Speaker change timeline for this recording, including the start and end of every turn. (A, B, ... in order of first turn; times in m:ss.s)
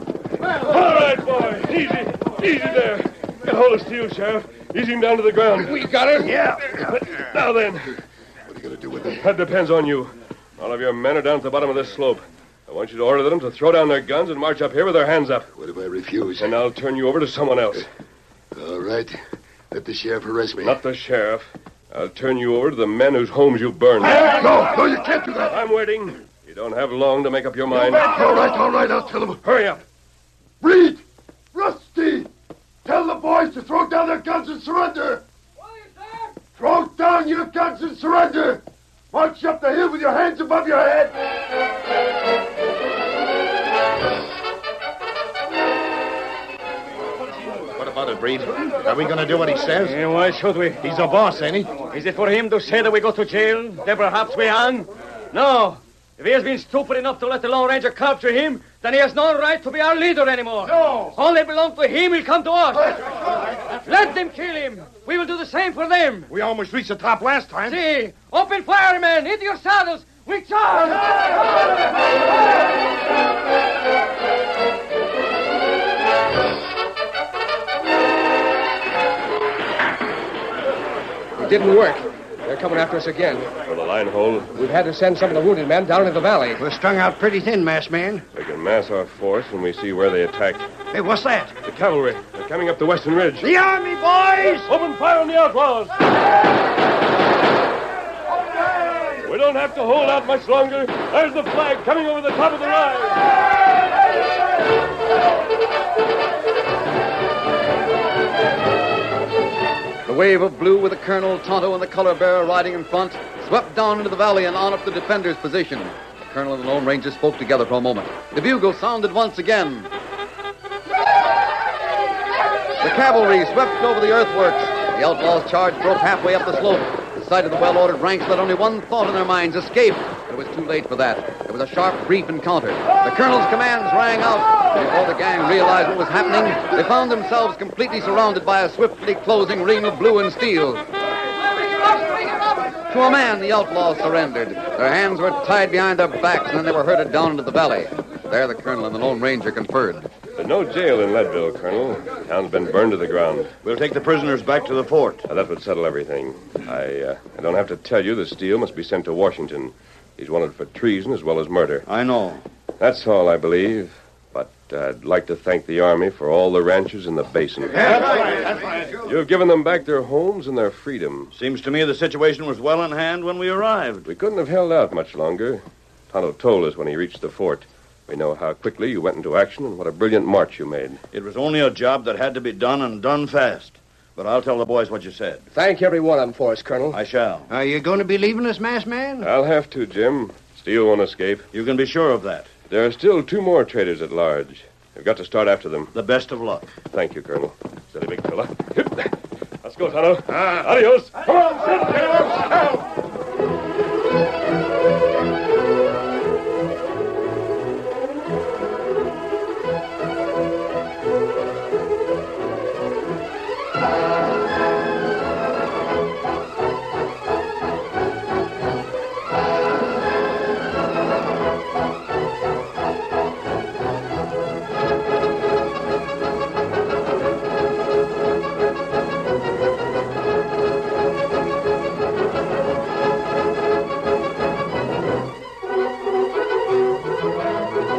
0:00.4-0:07.9 A
0:06.3-0:06.6 B
0:08.5-0:09.3 C
0:09.1-0:15.5 A
0:15.6-0:16.6 C
0:16.4-0:17.9 A
0:18.5-0:19.2 C
0:19.7-0:20.8 C
0:20.6-0:24.4 A
0:24.0-0:25.6 C
0:25.5-0:28.3 A
0:27.7-0:29.4 C
0:29.4-0:29.8 A
0:30.6-0:31.0 C
0:31.5-0:32.3 C
0:32.8-0:35.2 C
0:36.5-0:41.2 C
0:47.8-0:50.0 D
0:49.8-0:50.8 E
0:50.8-0:51.8 D
0:51.8-1:06.3 E
1:06.3-1:07.8 D
1:07.7-1:11.3 E
1:21.4-1:23.5 F
1:23.7-1:24.5 A
1:24.6-1:26.6 F
1:26.6-1:28.2 B
1:28.3-1:30.7 A
1:30.9-1:31.5 B
1:31.6-1:33.5 A
1:33.4-1:34.7 B
1:34.7-1:36.0 A
1:39.2-1:43.3 A
1:50.0-1:59.9 G
2:02.8-2:20.8 G
2:22.9-2:30.1 G
2:30.4-2:33.5 A
2:33.6-2:35.2 H
2:35.3-2:41.9 A
2:41.9-2:42.4 H
2:42.8-2:48.4 A
2:47.7-2:49.0 B
2:49.0-2:51.3 A
2:51.3-2:54.1 H
2:54.0-3:01.0 A
3:01.1-3:05.4 H
3:05.5-3:07.0 F
3:06.9-3:07.5 H
3:07.5-3:09.3 B
3:09.2-3:11.5 A
3:11.5-3:12.5 H
3:12.7-3:16.0 A
3:15.9-3:16.6 H
3:16.9-3:19.1 A
3:19.6-3:22.8 A